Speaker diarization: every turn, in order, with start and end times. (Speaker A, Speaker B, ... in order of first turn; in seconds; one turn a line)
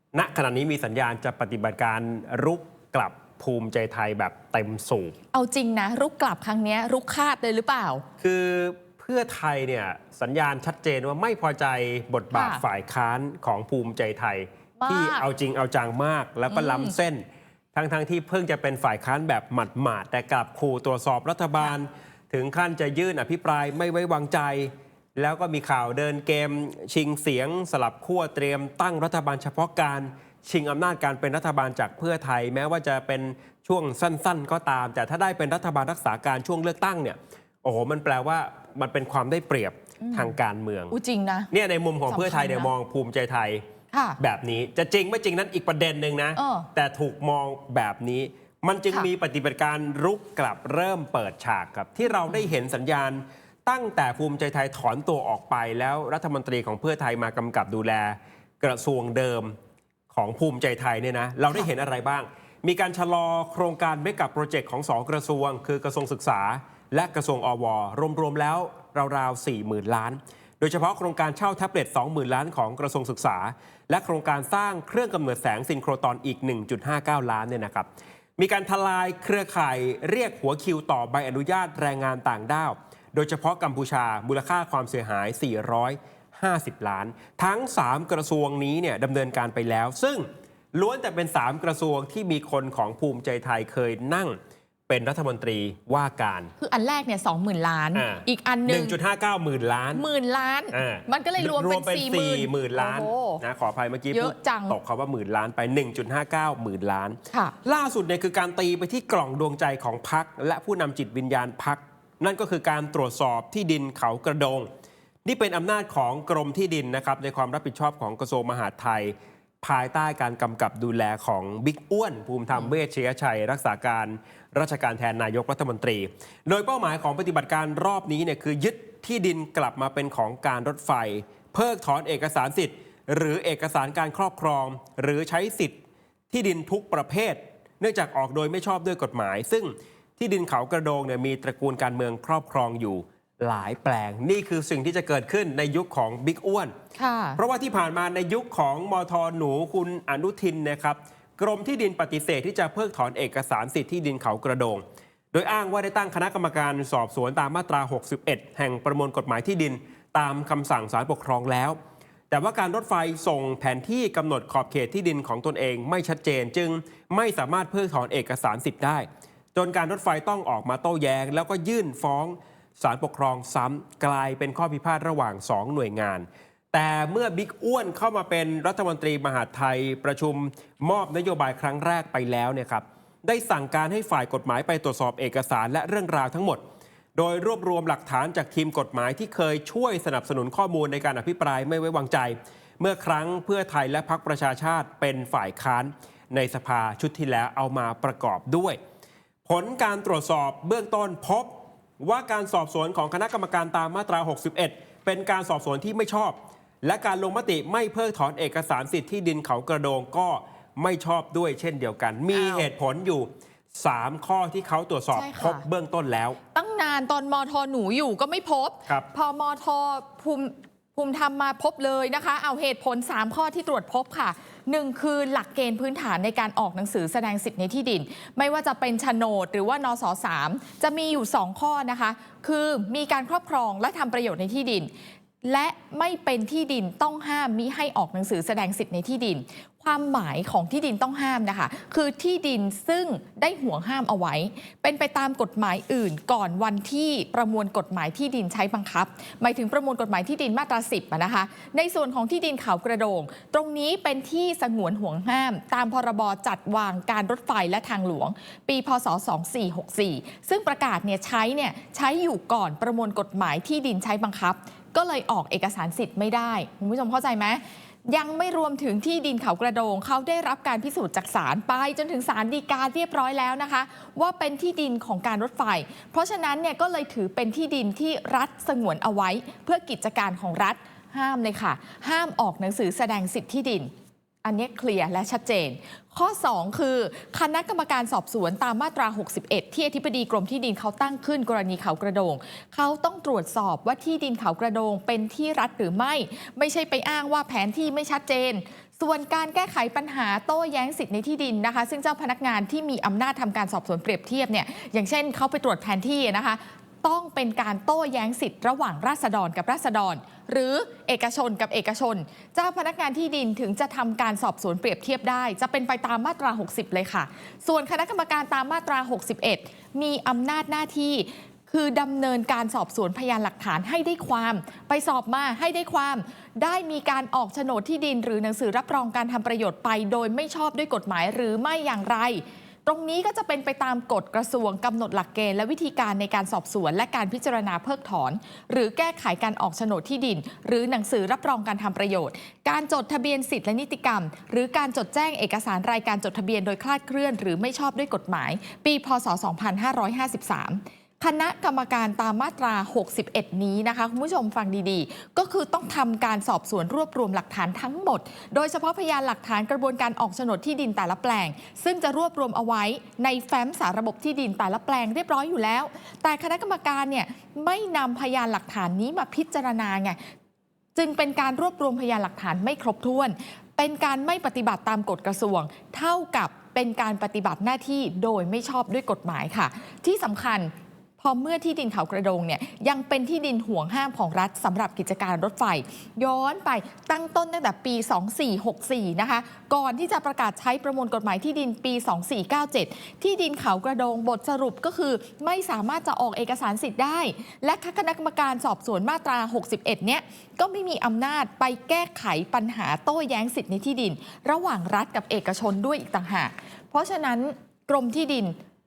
Speaker A: 0.1-5.2
Speaker B: 5.3-8.1
Speaker A: 8.2-41.0
Speaker B: 12.3-12.6
Speaker B: 14.8-15.2
Speaker B: 16.5-16.9
Speaker B: 40.0-40.3
Speaker B: 40.9-41.5
Speaker A: 41.5-43.6
Speaker B: 42.1-42.7
Speaker B: 43.9-44.2
Speaker A: 44.2-59.5
Speaker B: 46.4-46.7
Speaker A: 60.1-94.4
Speaker A: 94.9-96.5
Speaker B: 96.6-99.0
Speaker A: 97.9-100.0
Speaker B: 99.9-103.4
Speaker A: 100.7-114.7
Speaker B: 104.1-104.8
Speaker B: 107.3-107.6
Speaker A: 115.2-135.8
Speaker A: 136.3-146.8
Speaker B: 146.9-147.4
Speaker A: 147.4-161.8
Speaker A: 162.3-186.6
Speaker A: 187.2-198.8
Speaker A: 199.4-216.4
Speaker B: 212.3-212.7
Speaker B: 215.1-215.6
Speaker B: 216.5-234.9
Speaker B: 235.4-283.9
Speaker B: 284.4-370.2
Speaker B: 370.9-408.6